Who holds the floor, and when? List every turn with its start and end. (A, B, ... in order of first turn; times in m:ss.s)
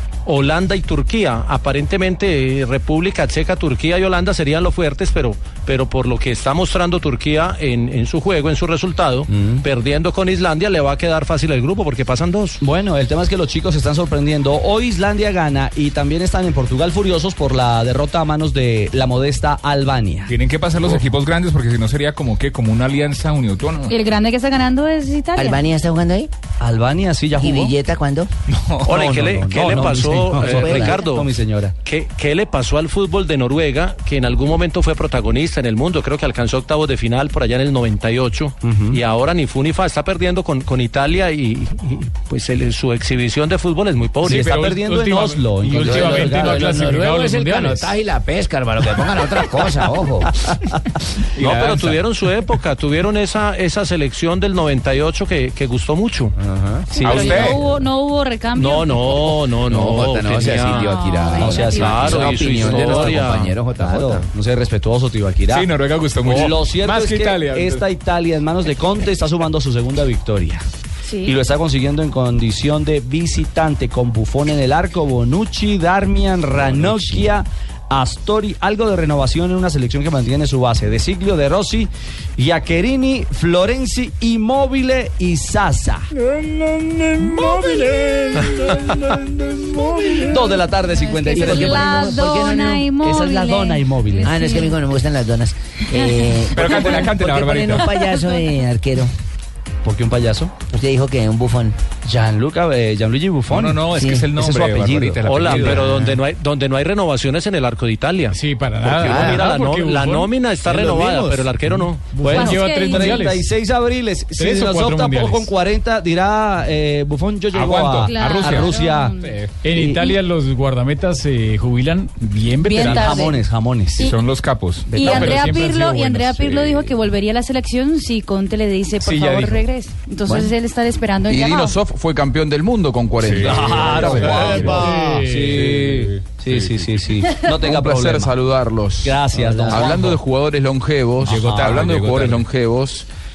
0:00.2-0:12.6 A
0:09.3-0:09.6 B
0:12.6-0:20.3 B
0:20.3-0:23.9 C
0:23.9-0:25.6 D
0:25.4-0:26.3 E
0:26.6-0:27.7 B
0:27.4-0:28.3 E
0:28.5-0:29.0 C
0:28.8-0:31.3 A
0:28.8-0:31.7 B
0:30.3-0:31.0 E
0:31.8-0:44.5 A
0:38.6-0:39.0 B
0:44.2-0:47.9 F
0:44.2-0:46.8 B
0:45.8-0:50.3 E
0:51.4-0:56.3 A
0:56.4-0:57.5 E
0:56.9-0:59.3 D
0:57.0-0:57.6 C
0:58.5-1:00.9 A
0:59.7-1:04.2 E
1:00.5-1:02.2 D
1:01.4-1:05.7 B
1:01.7-1:03.5 A
1:05.5-1:07.8 C
1:06.2-1:10.6 B
1:11.2-1:26.1 B
1:27.3-1:27.6 B
1:30.2-1:32.1 B
1:30.9-1:34.8 D
1:31.3-1:32.8 E
1:33.0-1:34.4 B
1:34.2-1:39.1 E
1:35.9-1:36.8 D
1:36.5-1:38.0 C
1:38.0-1:38.4 D
1:39.8-1:40.5 B
1:40.7-1:41.8 E
1:42.0-1:46.1 B
1:43.5-1:45.8 C
1:43.9-1:44.3 E
1:45.2-1:52.2 A
1:48.3-1:50.3 F
1:49.0-1:49.4 E
1:50.7-1:51.4 B
1:52.1-1:53.4 F
1:52.2-1:59.2 B
1:52.3-1:53.2 D
1:54.4-1:55.5 F
1:57.5-1:59.5 C
1:58.0-1:59.3 D
1:59.6-2:03.2 F
1:59.8-2:00.1 B
2:02.6-2:03.4 D
2:02.8-2:04.1 B
2:04.0-2:05.0 C
2:04.9-2:05.4 B
2:05.0-2:11.7 D
2:05.0-2:06.6 F
2:09.0-2:09.6 F
2:11.3-2:14.7 G
2:13.2-2:14.8 C
2:13.4-2:18.3 B
2:14.1-2:15.9 F
2:15.6-2:16.8 C
2:17.6-2:23.1 G
2:19.0-2:20.2 B
2:21.2-2:22.4 C